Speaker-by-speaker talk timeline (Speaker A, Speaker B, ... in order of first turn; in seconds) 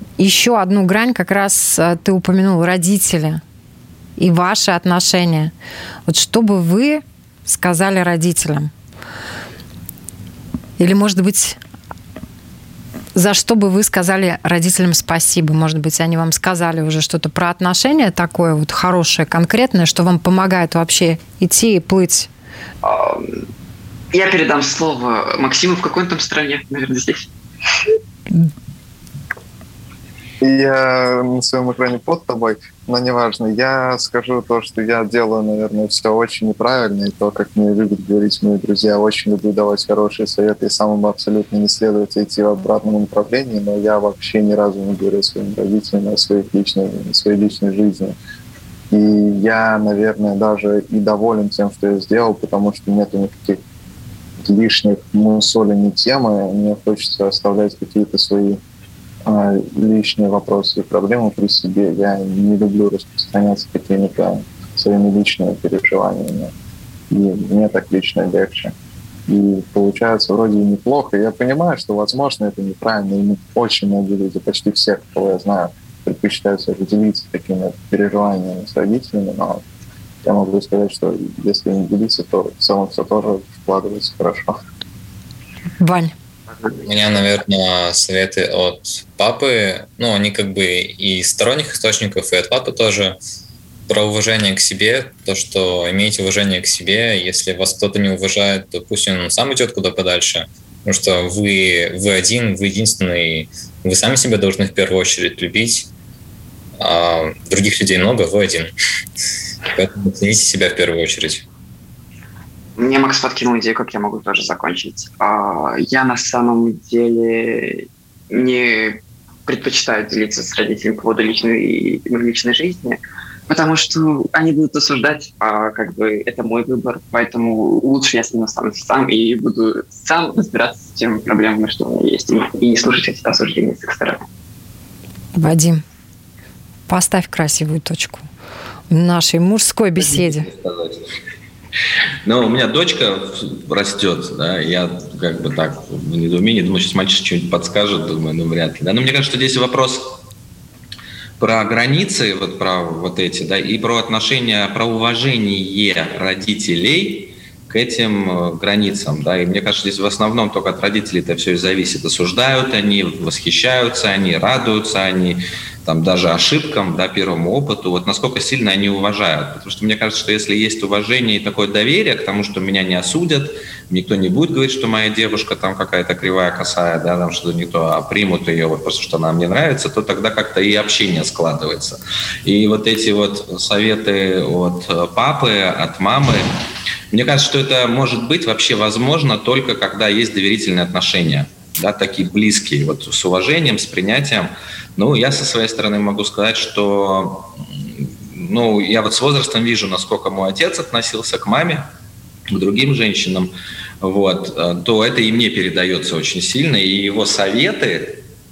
Speaker A: 0.2-3.4, 4.2-5.5, 6.1-8.7, 10.8-11.6, 13.1-22.3, 85.8-86.1, 135.3-135.8, 136.9-138.3, 138.9-140.5
Speaker B: 22.8-23.4, 24.1-27.3, 112.8-134.2
Speaker C: 30.4-48.1, 48.9-53.6, 54.4-58.6, 59.2-66.5, 67.1-68.7, 69.3-79.6, 80.2-84.6
Speaker D: 86.8-93.2, 93.9-105.9, 106.8-108.7, 109.7-111.4
Speaker E: 140.0-141.0, 142.2-150.2, 151.4-186.5, 187.1-201.8, 202.5-208.2